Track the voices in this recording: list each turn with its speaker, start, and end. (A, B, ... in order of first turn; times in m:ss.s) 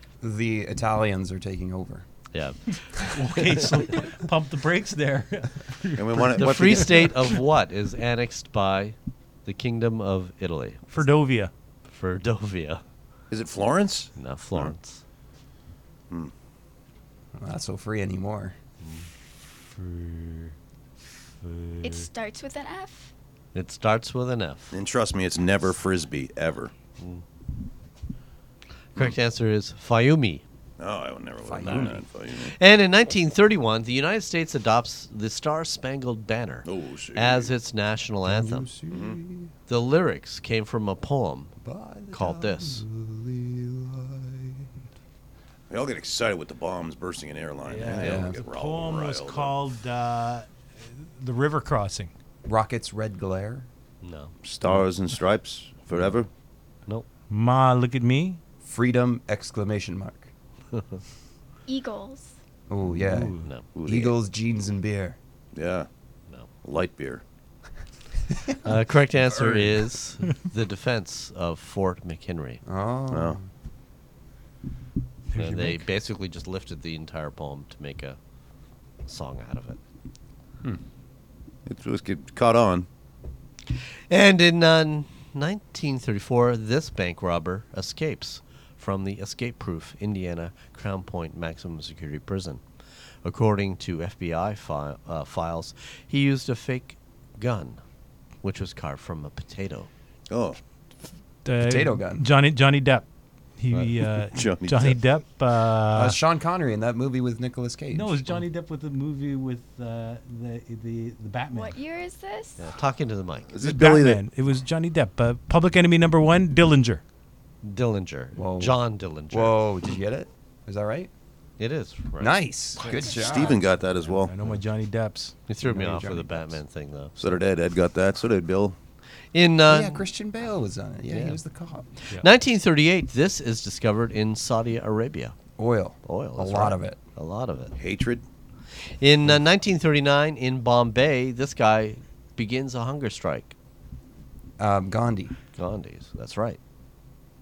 0:00.2-0:02.0 A
0:02.3-0:03.6 B
0:03.0-0:07.2 C
0:06.0-0:07.2 D
0:06.4-0:11.1 B
0:10.9-0:11.5 C
0:11.9-0:12.8 B
0:13.3-0:14.7 D
0:14.2-0:15.0 B
0:17.4-0:18.6 A
0:19.5-0:20.5 C
0:21.4-0:22.1 C
0:21.8-0:23.1 E
0:23.5-0:24.8 B
0:24.7-0:26.7 D
0:28.9-0:30.4 B
0:30.8-0:32.5 D
0:31.4-0:32.0 A
0:31.6-0:38.7 B
0:36.6-0:37.5 D
0:38.2-0:39.5 A
0:38.9-0:39.2 D
0:39.7-0:41.5 B
0:41.6-0:44.7 A
0:42.1-0:42.8 B
0:45.7-0:49.5 D
0:47.6-0:52.1 C
0:48.0-0:48.4 A
0:52.4-0:53.7 A
0:54.0-0:54.4 B
0:54.4-0:56.3 D
0:57.3-0:58.4 C
0:58.6-1:00.3 A
1:00.7-1:01.0 B
1:01.7-1:02.3 E
1:02.7-1:05.2 A
1:03.0-1:03.5 C
1:03.7-1:04.1 D
1:05.5-1:05.9 D
1:06.6-1:07.2 D
1:08.6-1:12.6 B
1:12.6-1:13.4 A
1:13.1-1:13.4 D
1:15.3-1:15.8 C
1:15.3-1:18.2 B
1:19.0-1:19.8 B
1:21.6-1:22.9 D
1:24.1-1:32.6 B
1:33.2-1:37.8 B
1:38.4-1:39.9 B
1:40.3-1:40.6 D
1:41.4-1:43.0 C
1:41.6-1:42.2 A
1:43.6-1:46.2 C
1:44.3-1:45.0 D
1:45.9-1:48.3 A
1:47.9-1:51.8 C
1:51.5-1:52.7 E
1:52.6-1:53.5 B
1:53.5-1:54.2 D
1:53.6-1:57.0 C
1:57.6-1:59.6 B
1:58.3-1:58.8 A
1:59.3-2:01.1 A
2:01.6-2:03.1 B
2:02.2-2:03.6 A
2:02.8-2:03.6 E
2:03.1-2:04.3 D
2:04.0-2:05.4 C
2:05.5-2:07.2 B
2:05.6-2:06.6 A
2:07.2-2:08.8 D
2:09.3-2:10.0 B
2:09.7-2:11.9 A
2:11.1-2:11.4 B
2:12.1-2:15.4 B
2:15.6-2:17.0 A
2:16.0-2:17.8 B
2:17.8-2:18.2 D
2:18.8-2:23.5 B
2:24.6-2:25.3 A
2:25.5-2:26.6 B